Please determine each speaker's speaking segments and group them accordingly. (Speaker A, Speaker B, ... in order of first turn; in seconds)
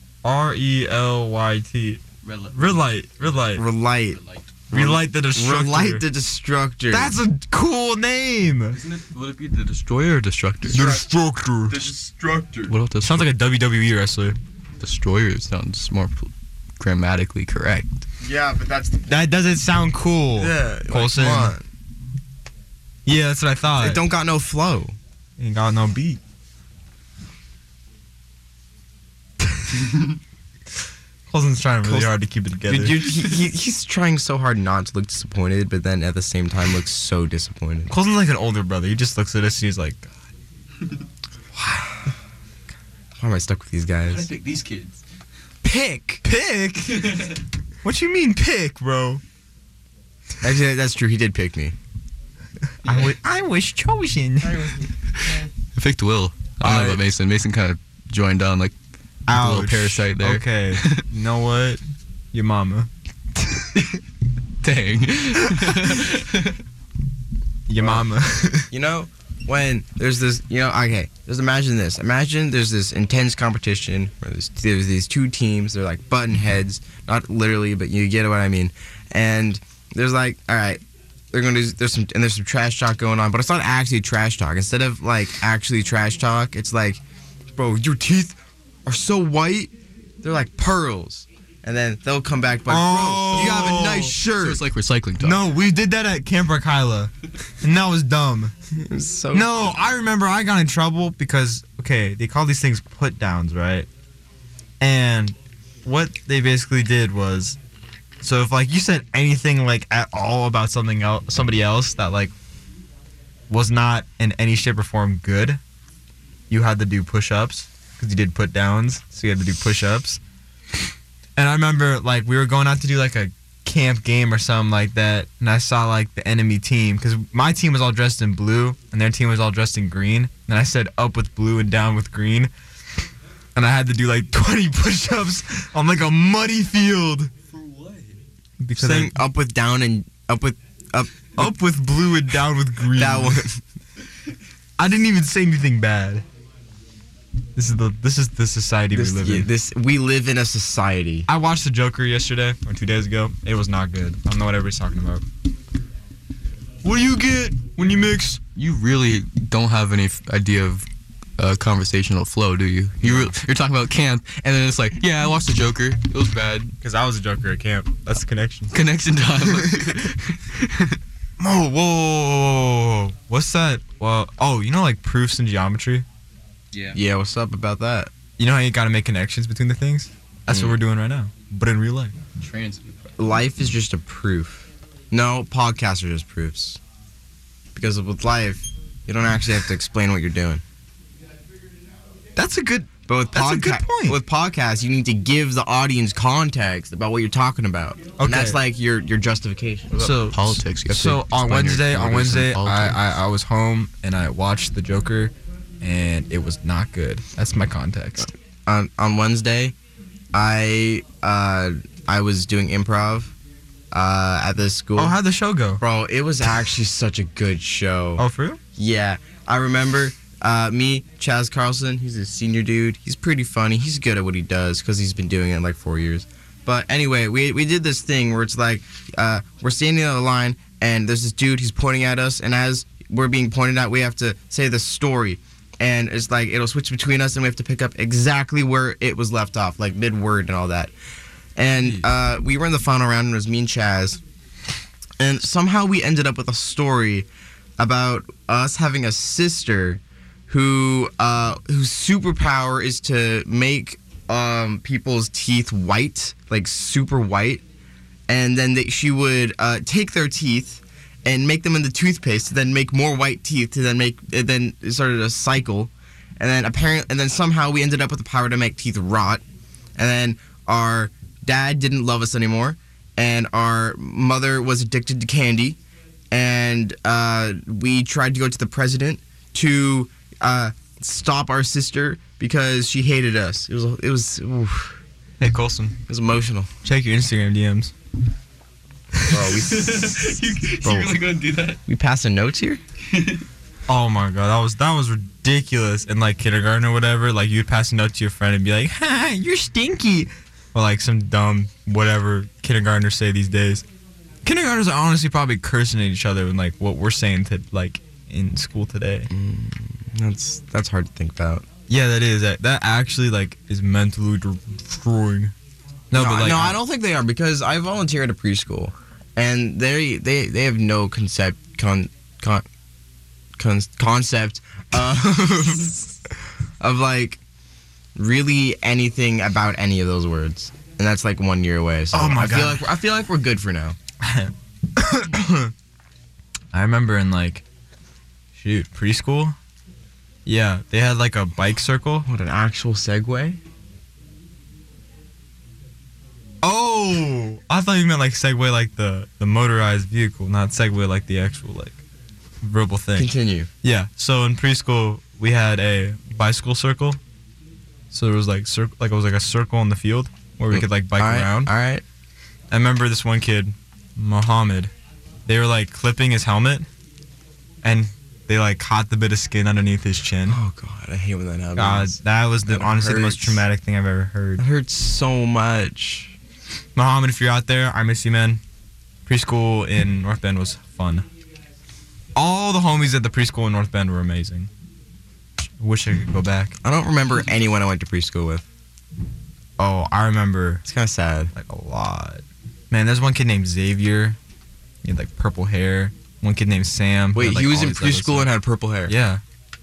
Speaker A: 0.2-2.0, 2.5-3.6, 4.7-6.0, 6.9-8.8, 10.7-11.8, 13.0-14.4, 19.1-21.5, 23.1-24.0, 25.4-26.2, 31.3-33.0, 37.9-40.1, 46.2-47.2, 47.8-49.2, 52.8-54.7, 56.6-57.0, 59.3-61.8, 62.3-63.9, 67.7-68.7, 92.7-94.2, 95.2-97.1, 97.6-98.5, 99.3-103.9, 104.8-107.6, 108.2-112.3, 113.5-115.6, 116.5-120.2, 121.4-132.5, 133.6-137.3, 138.6-139.2, 141.4-143.5, 144.8-146.2, 147.6-149.5, 151.3-155.2, 156.8-158.4, 163.0-163.3, 166.8-168.8, 169.6-169.9, 171.4-176.1, 178.4-182.2, 192.4-194.2, 198.2-198.6, 199.9-208.3, 215.0-215.8, 218.2-218.6, 285.4-286.0, 286.8-287.9, 293.9-303.9, 304.4-309.3, 311.9-315.5, 316.1-316.8, 332.1-332.9, 334.2-335.7, 336.7-337.6, 338.6-339.6, 340.5-342.3, 346.6-352.0, 352.6-353.3, 353.8-357.2, 358.1-361.7, 362.7-364.9, 365.5-366.9, 367.8-370.6, 371.8-374.6, 377.0-378.6, 379.3-381.3, 382.4-384.7, 385.8-386.8, 389.8-390.8, 391.5-394.4, 395.0-398.5, 399.1-399.4
Speaker B: 2.2-2.9, 4.1-4.5, 8.7-10.9, 12.6-13.3, 14.8-18.1, 44.1-45.0, 46.9-47.4, 55.1-58.7, 59.3-61.0, 64.6-66.6, 93.4-95.5, 137.5-138.2, 158.6-160.9, 161.4-166.8, 168.7-171.0, 176.7-177.0, 182.4-183.1, 200.0-203.0, 289.5-291.8, 293.1-293.4
Speaker C: 3.6-4.2, 4.7-7.1, 10.7-11.1, 11.7-12.7, 18.2-19.1, 20.4-21.7, 23.8-24.9, 31.8-32.1, 32.7-37.9, 41.5-42.1, 43.2-44.3, 45.6-46.2, 50.4-51.8, 54.4-55.4, 68.7-87.0, 87.5-94.6, 98.7-99.8, 138.8-141.5, 142.9-143.6, 148.9-151.3, 176.9-178.1, 180.5-180.8, 183.2-186.8, 187.7-190.6, 193.1-200.1, 208.7-209.8, 210.3-213.3, 213.9-215.2, 215.8-218.2, 218.8-240.9, 241.6-244.2, 245.2-247.3, 247.8-257.6, 258.3-269.4, 270.0-275.8, 276.3-285.0, 286.1-286.7, 289.3-291.1, 291.9-292.8, 309.3-311.7, 316.1-322.6, 323.6-326.2, 326.8-327.4, 328.2-334.0, 342.3-343.6, 353.2-353.7, 360.7-362.0, 370.4-373.6, 374.6-376.4, 386.8-388.7, 390.9-391.5, 397.3-399.1